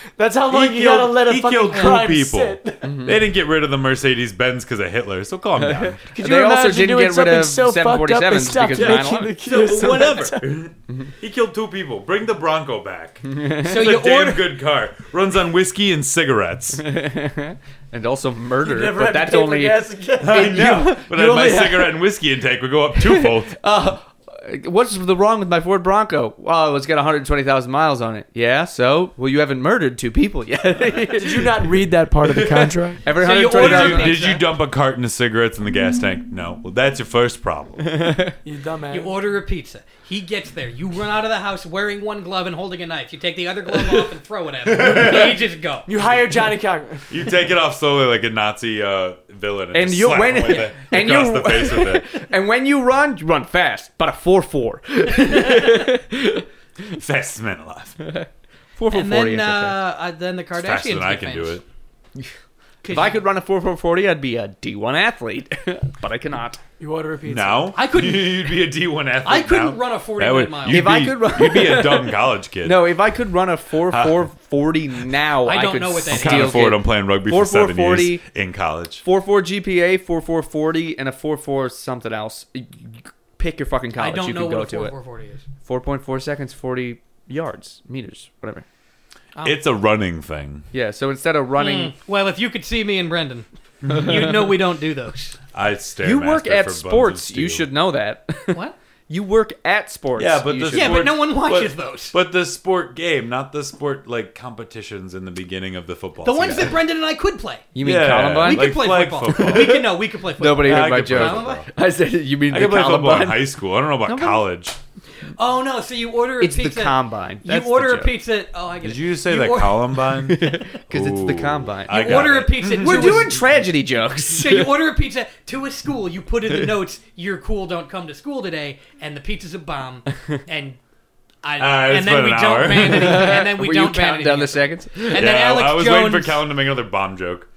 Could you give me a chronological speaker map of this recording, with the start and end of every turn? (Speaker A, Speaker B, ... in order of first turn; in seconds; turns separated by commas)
Speaker A: 0.2-2.9, Speaker B: 0.5-6.0, Speaker C: 1.7-2.1, Speaker D: 2.8-3.2, Speaker D: 5.6-9.3, Speaker A: 6.1-10.7, Speaker B: 8.7-16.9, Speaker C: 9.8-10.3, Speaker D: 13.2-13.9, Speaker C: 13.6-14.6, Speaker D: 16.8-21.9, Speaker A: 18.6-21.9, Speaker B: 20.2-23.6, Speaker D: 23.0-31.6, Speaker A: 31.1-33.0, Speaker D: 33.0-34.2, Speaker C: 33.1-34.4, Speaker B: 33.5-38.0, Speaker D: 37.9-38.3, Speaker A: 38.4-39.1, Speaker C: 38.9-45.9, Speaker B: 44.7-45.4, Speaker A: 45.9-47.1, Speaker B: 47.1-52.2, Speaker D: 49.7-56.4, Speaker B: 56.9-58.0, Speaker D: 58.0-59.8, Speaker C: 58.9-61.6, Speaker B: 60.6-61.6, Speaker C: 62.8-63.1, Speaker D: 62.9-66.6, Speaker A: 66.8-67.7, Speaker B: 67.3-72.9, Speaker C: 67.8-68.6, Speaker C: 69.2-71.1, Speaker D: 70.7-78.2, Speaker B: 73.9-74.3, Speaker C: 75.5-76.7, Speaker B: 76.1-79.0, Speaker D: 79.0-84.9, Speaker C: 84.0-85.5, Speaker D: 85.6-88.7, Speaker B: 89.4-90.7, Speaker D: 90.7-92.0, Speaker C: 91.6-95.4, Speaker B: 95.5-97.7, Speaker D: 96.0-101.1, Speaker B: 100.2-106.8, Speaker C: 100.7-102.2, Speaker C: 106.2-107.7, Speaker D: 107.7-109.8, Speaker B: 107.8-110.0, Speaker C: 108.4-111.6, Speaker D: 110.4-114.5, Speaker B: 110.6-111.7, Speaker B: 112.5-114.8, Speaker C: 115.4-120.0, Speaker D: 116.4-118.2, Speaker B: 118.8-123.4, Speaker D: 120.1-122.3, Speaker C: 121.9-123.4, Speaker D: 122.8-124.7, Speaker C: 124.3-130.8, Speaker C: 131.4-136.5, Speaker B: 131.6-133.3, Speaker D: 132.8-135.3, Speaker B: 135.2-137.5